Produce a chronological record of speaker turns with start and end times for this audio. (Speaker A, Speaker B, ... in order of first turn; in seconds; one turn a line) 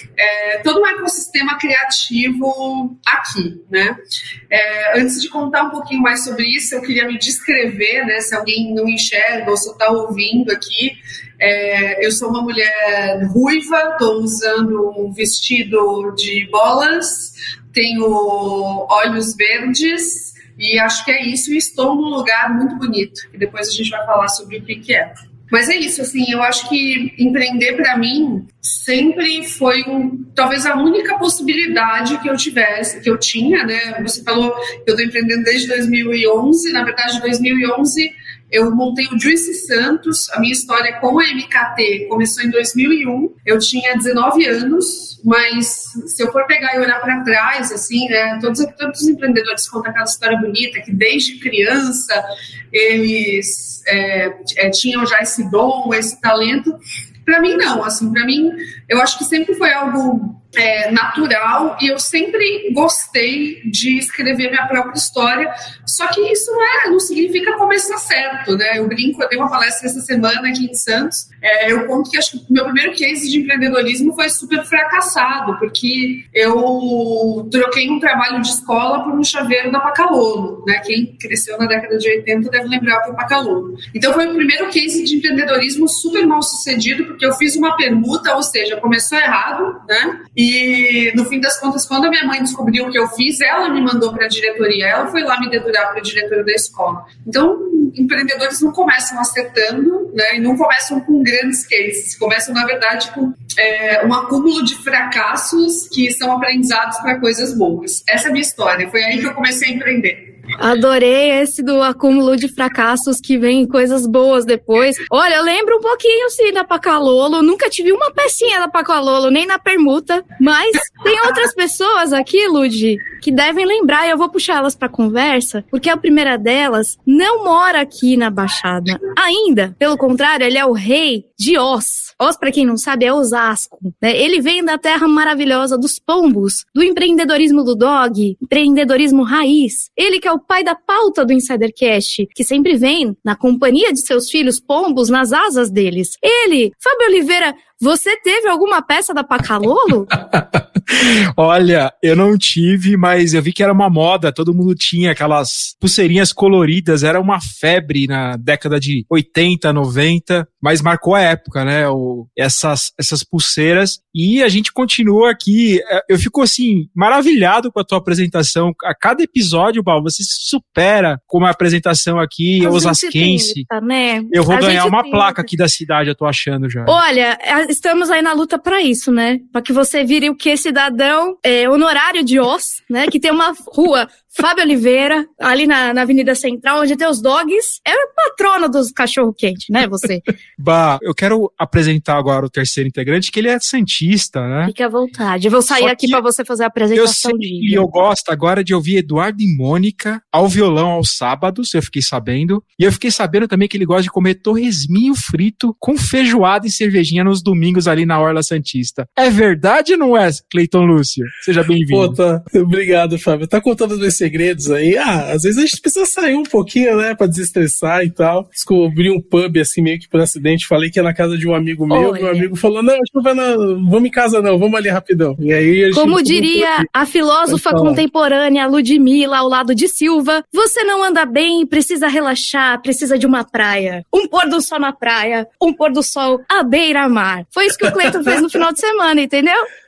Speaker A: 0.2-4.0
Speaker A: 4.5-110.3
Speaker B: 110.6-150.1
Speaker C: 150.1-173.7
Speaker B: 172.6-175.5
Speaker C: 174.3-177.0
Speaker B: 176.9-190.2
Speaker C: 190.6-194.7
Speaker B: 194.6-197.8
Speaker C: 195.7-196.2
Speaker C: 196.9-212.2
Speaker D: 211.9-226.9
Speaker B: 221.9-222.5
Speaker B: 225.9-239.6
Speaker D: 227.5-228.0